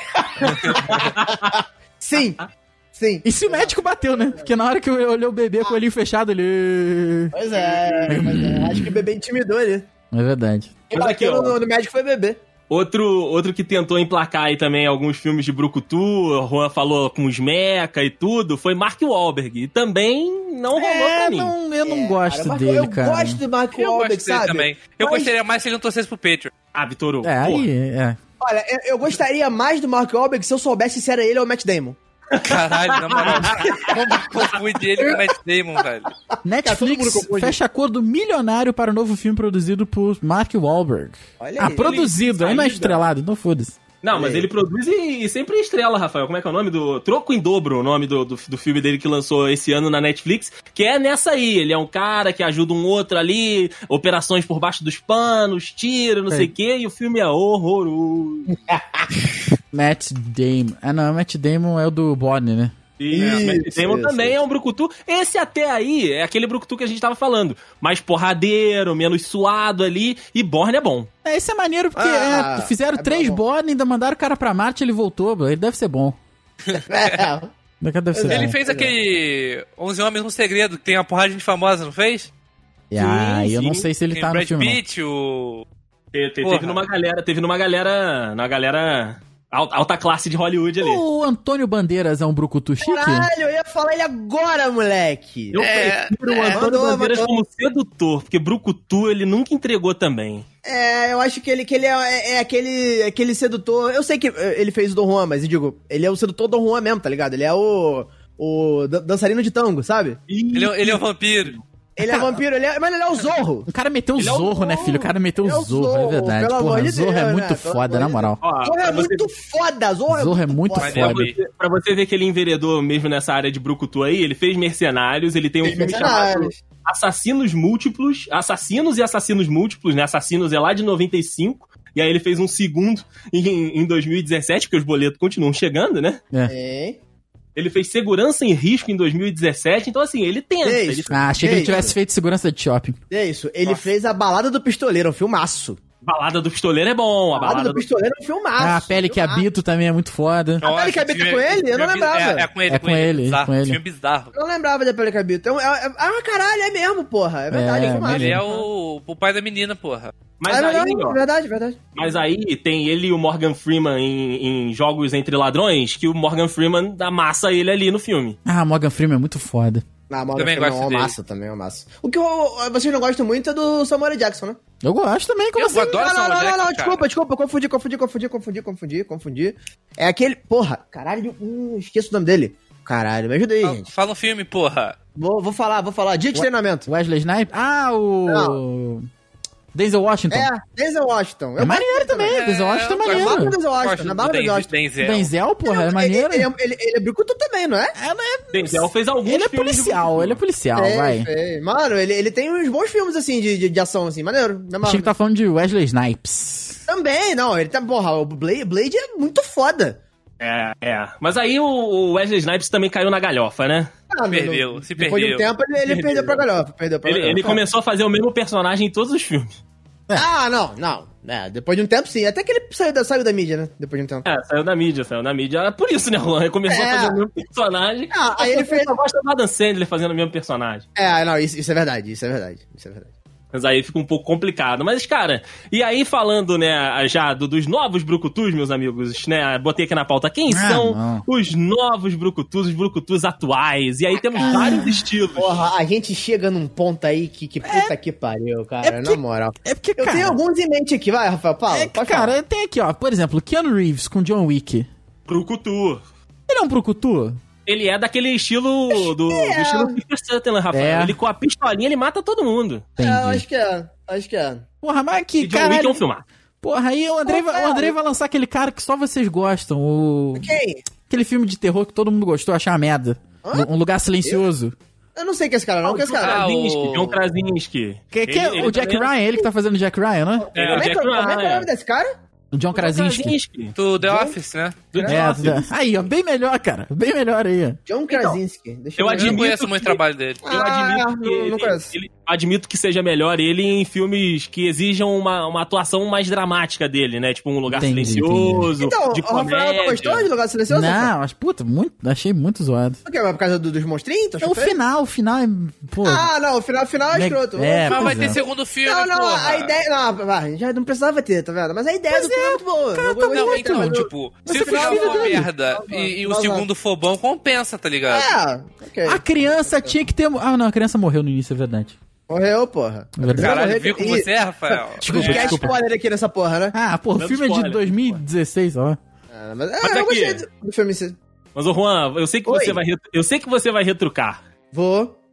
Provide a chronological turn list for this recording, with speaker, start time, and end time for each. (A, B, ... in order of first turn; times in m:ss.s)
0:00.1-0:04.5 A
0:00.6-0:01.5 B
0:03.2-0:07.3 C
0:07.3-0:09.9 A
0:07.5-0:08.1 B
0:08.1-0:08.9 C
0:10.1-0:10.8 C
0:10.9-0:12.4 A
0:10.9-0:11.6 B
0:12.7-0:21.5 B
0:20.8-0:23.4 C
0:21.8-0:25.3 A
0:23.7-0:26.5 D
0:26.7-0:27.7 B
0:27.2-0:28.2 C
0:28.4-0:32.0 A
0:32.3-0:33.9 B
0:32.4-0:36.1 D
0:33.7-0:34.4 A
0:36.4-0:43.8 C
0:36.6-0:37.6 A
0:41.4-0:42.0 A
0:41.7-0:43.0 B
0:44.0-0:58.6 B
0:44.1-0:44.4 A
0:58.7-0:59.0 A
0:59.7-1:02.7 C
1:03.0-1:11.1 B
1:03.1-1:04.4 A
1:03.2-1:03.4 D
1:11.2-1:16.2 C
1:12.0-1:13.4 A
1:16.6-1:17.2 D
1:16.7-1:17.5 A
1:17.8-1:18.6 C
1:18.1-1:18.9 A
1:18.3-1:22.3 D
1:22.9-1:24.8 C
1:22.9-1:23.9 B
1:24.1-1:25.6 D
1:26.1-1:31.0 B
1:26.4-1:26.8 D
1:30.8-1:33.3 C
1:32.8-1:35.7 A
1:35.5-1:40.4 B
1:35.6-1:36.6 D
1:36.5-1:37.3 A
1:40.6-1:50.2 A
1:50.3-1:51.6 B
1:50.5-1:51.5 D
1:52.0-1:53.7 A
1:52.0-1:52.4 C
1:53.7-1:58.4 C
1:54.2-1:55.1 B
1:55.4-2:01.1 A
1:58.4-1:59.3 B
2:00.1-2:01.3 C
2:00.8-2:01.4 D
2:00.9-2:16.2 B
2:05.6-2:06.6 A
2:16.5-2:17.0 A
2:17.6-2:21.2 B
2:20.6-2:21.9 A
2:21.1-2:23.0 C
2:23.1-2:25.8 A
2:26.0-2:27.8 B
2:27.4-2:29.4 A
2:28.6-2:30.6 C
2:30.6-2:32.5 A
2:30.6-2:34.3 D
2:32.7-2:33.8 C
2:34.3-2:38.6 A
2:37.5-2:38.4 C
2:38.0-2:40.1 D
2:40.4-2:41.2 B
2:40.5-2:41.8 A
2:41.9-2:48.4 B
2:48.4-2:49.8 C
2:50.1-2:54.6 A
2:50.4-2:51.1 D
2:54.8-2:55.9 C
2:55.5-2:57.0 D
2:55.7-3:03.9 A
3:03.6-3:04.9 D
3:05.2-3:06.9 A
3:06.3-3:09.1 C
3:08.3-3:08.6 A
3:09.7-3:10.5 C
3:10.3-3:12.4 A
3:11.6-3:13.6 C
3:12.3-3:15.3 D
3:13.0-3:14.7 A
3:15.0-3:16.5 C
3:15.6-3:17.9 A
3:18.0-3:21.3 C
3:18.5-3:20.4 B
3:20.8-3:25.1 A
3:24.8-3:26.8 C
3:26.9-3:30.0 A
3:30.4-3:33.9 B
3:34.1-3:37.6 A
3:34.3-3:35.4 D
3:35.8-3:36.4 B
3:37.0-3:39.5 B
3:40.1-3:44.2 A
3:44.2-3:50.8 B
3:46.7-3:47.2 A
3:48.1-3:48.9 A
3:50.9-3:53.1 A
3:53.5-4:05.7 B
4:00.5-4:01.2 C
4:04.2-4:04.8 A
4:04.4-4:05.0 C
4:05.4-4:12.4 A
4:07.6-4:07.9 C
4:08.8-4:10.4 C
4:11.7-4:14.9 C
4:15.3-4:16.0 B
4:16.5-4:17.4 C
4:17.6-4:22.9 B
4:18.9-4:20.0 A
4:20.7-4:21.2 C
4:23.0-4:23.4 C
4:23.0-4:24.6 A
4:24.8-4:26.0 C
4:25.4-4:26.2 B
4:26.6-4:30.5 C
4:27.2-4:27.9 A
4:30.3-4:30.8 A
4:31.1-4:34.7 C
4:33.4-4:33.7 A
4:35.2-4:36.4 A
4:35.8-4:39.1 B
4:36.2-4:37.2 D
4:38.1-4:40.5 C
4:40.5-4:41.7 B
4:40.6-4:40.9 D
4:40.6-4:42.1 A
4:42.5-4:43.4 C
4:42.7-4:43.8 B
4:43.8-4:44.8 D
4:44.0-4:44.4 A
4:44.9-4:45.6 B
4:44.9-4:45.6 A
4:45.1-4:47.8 C
4:47.9-4:49.4 A
4:48.1-4:48.4 B
4:49.0-5:00.3 B
4:49.1-4:50.4 D
4:50.4-4:51.9 A
4:57.7-4:58.7 C
4:58.8-5:01.1 A
5:00.7-5:03.0 C
5:03.0-5:04.8 A
5:04.4-5:06.3 C
5:06.0-5:16.6 A
5:07.1-5:08.4 C
5:07.9-5:09.7 D
5:12.1-5:15.5 C
5:13.2-5:18.3 D
5:18.1-5:19.9 A
5:19.0-5:21.9 C
5:22.3-5:26.7 A
5:23.2-5:23.6 C
5:23.3-5:25.7 D
5:25.0-5:25.8 C
5:26.7-5:29.0 C
5:27.2-5:28.2 B
5:29.3-5:31.2 A
5:29.8-5:30.4 B
5:31.5-5:34.4 B
5:32.5-5:32.8 A
5:34.7-5:35.2 A